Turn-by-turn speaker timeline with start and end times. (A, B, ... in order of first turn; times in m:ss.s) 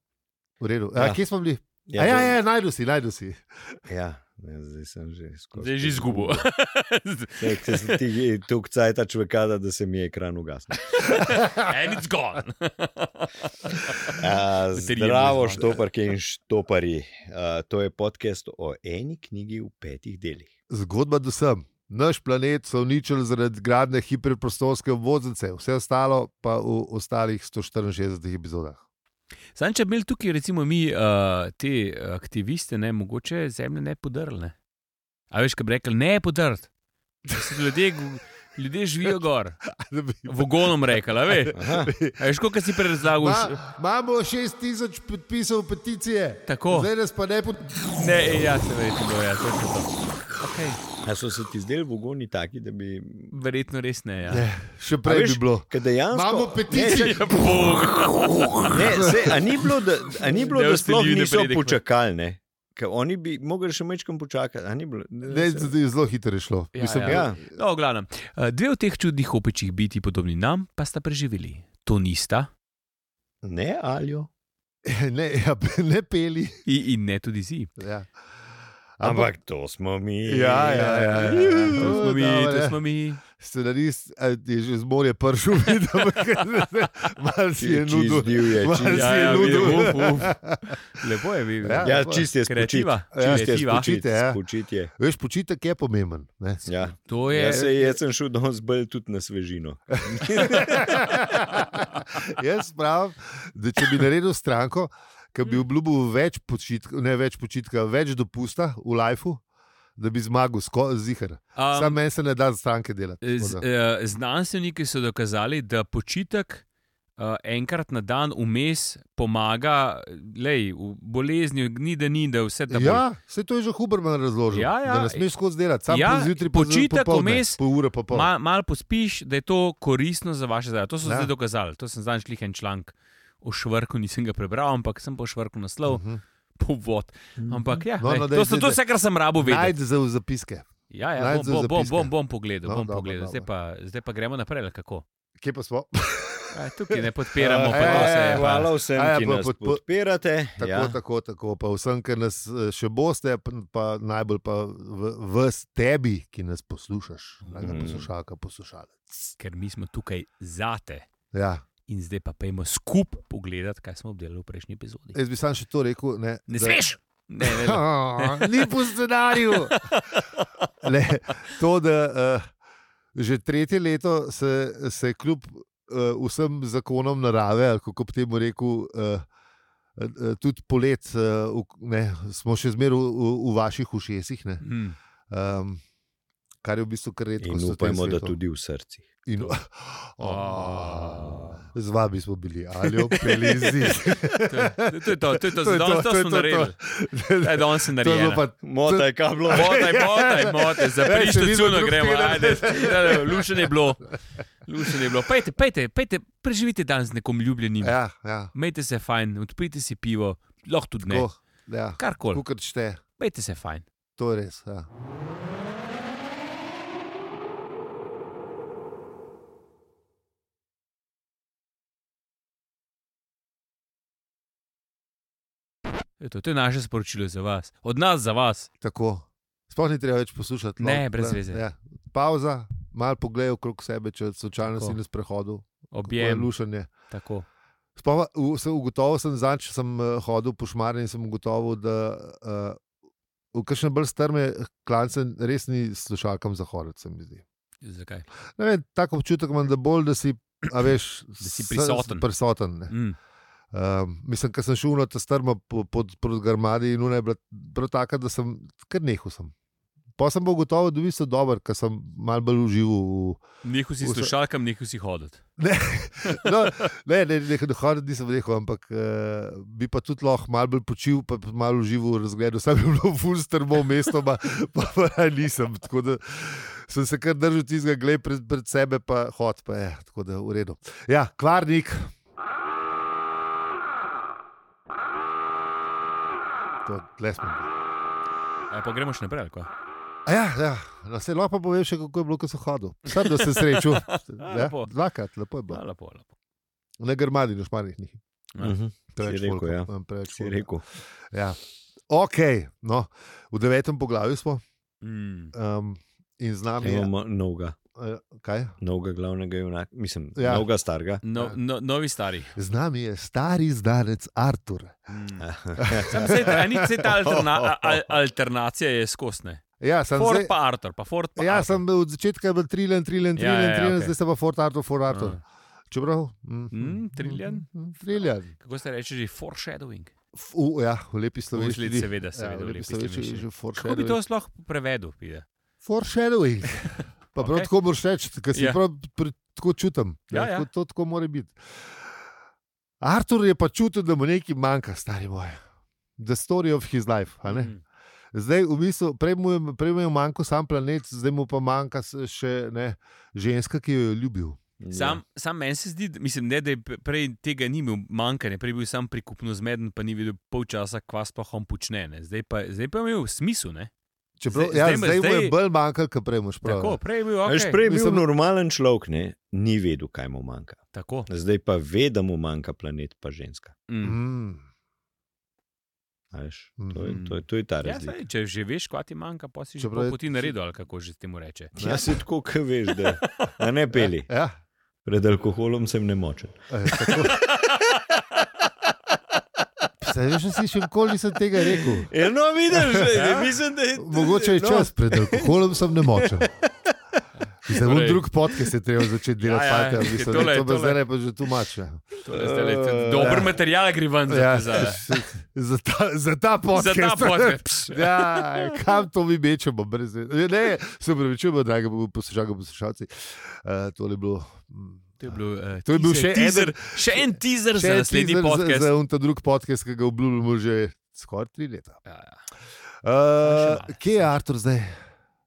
0:00.6-0:03.8 A
0:01.8-0:02.4 B
0:03.9-0:06.4 B
0:05.6-0:08.0 C
0:07.4-0:11.2 B
0:10.9-0:15.8 C
0:11.3-0:11.7 A
0:14.1-0:20.5 B
0:20.7-0:28.8 A
0:29.5-0:34.6 C
0:35.3-0:36.7 C
0:37.3-0:37.7 A
0:37.3-0:39.6 C
0:39.7-0:42.2 A
0:40.2-0:43.6 C
0:41.5-0:41.9 B
0:43.0-0:47.9 A
0:46.4-0:46.9 C
0:47.9-0:50.8 C
0:51.0-0:53.3 B
0:53.3-0:54.4 C
0:54.3-0:57.4 A
0:55.0-0:57.2 B
0:56.7-0:59.2 C
0:58.7-1:05.7 B
0:58.9-0:59.4 A
1:00.2-1:01.8 C
1:05.3-1:07.5 A
1:06.7-1:12.5 C
1:07.0-1:07.4 B
1:13.4-1:14.3 B
1:14.8-1:16.6 A
1:16.6-1:17.7 C
1:17.8-1:18.1 A
1:19.0-1:19.3 A
1:19.0-1:22.0 B
1:20.3-1:30.8 A
1:21.2-1:23.2 C
1:27.6-1:30.0 B
1:28.9-1:33.9 C
1:31.6-1:32.3 A
1:31.8-1:34.9 B
1:33.1-1:34.4 A
1:34.9-1:36.8 A
1:36.6-1:41.1 B
1:37.0-1:37.7 C
1:37.4-1:38.0 A
1:40.1-1:49.4 A
1:50.0-1:53.6 A
1:51.6-1:52.0 C
1:53.2-1:56.6 C
1:57.2-2:03.0 C
2:02.7-2:08.3 A
2:04.5-2:05.3 C
2:05.9-2:16.0 C
2:11.0-2:11.3 A
2:15.9-2:16.2 A
2:16.6-2:19.7 C
2:17.4-2:17.8 B
2:18.0-2:18.8 A
2:19.4-2:22.1 A
2:20.9-2:25.0 C
2:22.6-2:23.5 A
2:25.4-2:27.0 A
2:26.5-2:28.7 C
2:27.4-2:31.0 B
2:27.6-2:29.8 A
2:30.6-2:39.3 A
2:37.6-2:38.1 B
2:39.4-2:41.1 C
2:41.3-2:41.6 A
2:41.9-2:45.2 C
2:45.1-2:46.8 A
2:46.5-2:48.7 C
2:47.4-2:49.9 A
2:49.4-2:50.6 C
2:50.8-2:52.4 A
2:53.1-2:59.2 A
3:00.0-3:04.6 A
3:04.6-3:05.0 C
3:05.3-3:05.8 A
3:06.6-3:08.4 A
3:07.4-3:09.1 B
3:09.2-3:23.7 A
3:10.2-3:11.6 C
3:13.1-3:16.7 C
3:17.4-3:18.4 C
3:18.6-3:19.9 B
3:19.5-3:28.0 C
3:27.8-3:28.5 A
3:28.5-3:31.3 C
3:31.0-3:33.0 A
3:32.0-3:32.4 C
3:33.2-3:33.8 C
3:34.2-3:34.9 A
3:46.2-3:48.7 C
3:48.8-3:56.9 A
3:50.8-3:51.6 C
3:54.6-3:55.0 C
3:55.9-3:57.4 C
3:58.0-4:02.8 A
4:03.5-4:07.4 A
4:07.8-4:08.2 C
4:08.6-4:12.9 A
4:11.4-4:12.2 C
4:12.9-4:13.2 C
4:13.7-4:19.5 A
4:20.2-4:23.4 A
4:23.6-4:25.4 C
4:24.0-4:24.3 A
4:25.6-4:42.1 A
4:26.2-4:26.8 C
4:46.8-4:47.7 A
4:48.7-4:49.7 C
4:50.2-4:55.8 A
4:53.2-4:54.9 C
4:55.7-4:56.3 C
4:57.0-4:58.2 A
4:58.6-5:00.8 B
4:59.2-5:00.7 A
5:01.3-5:04.6 A
5:05.0-5:05.5 C
5:05.5-5:07.1 A
5:06.8-5:07.8 B
5:08.0-5:08.8 A
5:08.8-5:11.2 B
5:10.4-5:10.6 A
5:11.2-5:12.5 C
5:12.5-5:15.0 A
5:15.1-5:15.5 C
5:15.4-5:16.5 B
5:15.8-5:17.1 A
5:16.0-5:19.6 C
5:17.3-5:18.0 B
5:19.8-5:20.5 A
5:20.1-5:21.8 C
5:21.4-5:28.5 A
5:23.4-5:24.1 C
5:25.1-5:25.4 C
5:26.7-5:30.1 C
5:30.3-5:34.2 A
5:31.5-5:35.4 C
5:35.8-5:42.1 A
5:36.9-5:37.7 C
5:38.5-5:38.8 C
5:40.3-5:40.7 C
5:43.0-5:45.6 A
5:46.2-5:47.7 A
5:47.4-5:47.8 C
5:48.3-5:54.6 A
5:54.8-5:55.2 B
5:54.9-6:03.9 C
6:04.4-6:07.0 A
6:04.5-6:05.5 C
6:06.6-6:07.8 C
6:07.4-6:13.7 B
6:07.8-6:08.2 A
6:10.9-6:11.3 C
6:13.9-6:14.2 C
6:14.0-6:14.6 A
6:16.3-6:18.2 B
6:16.8-6:17.2 A
6:17.0-6:21.7 C
6:19.8-6:20.5 A
6:21.8-6:24.3 B
6:21.8-6:22.2 A
6:24.0-6:24.5 A
6:25.0-6:27.4 B
6:26.7-6:27.4 A
6:27.3-6:28.0 C
6:30.0-6:32.1 A
6:31.7-6:35.6 B
6:32.7-6:33.1 A
6:33.1-6:33.5 C
6:34.0-6:36.5 A
6:36.1-6:36.4 B
6:37.6-6:38.2 C
6:37.6-6:42.1 A
6:39.4-6:41.0 C
6:42.2-6:45.0 C
6:42.3-6:43.5 B
6:43.2-6:43.5 A
6:44.3-7:02.0 A
6:46.7-6:48.7 C
6:55.2-6:58.9 C
7:02.0-7:02.4 C
7:03.0-7:04.9 A
7:03.4-7:04.2 C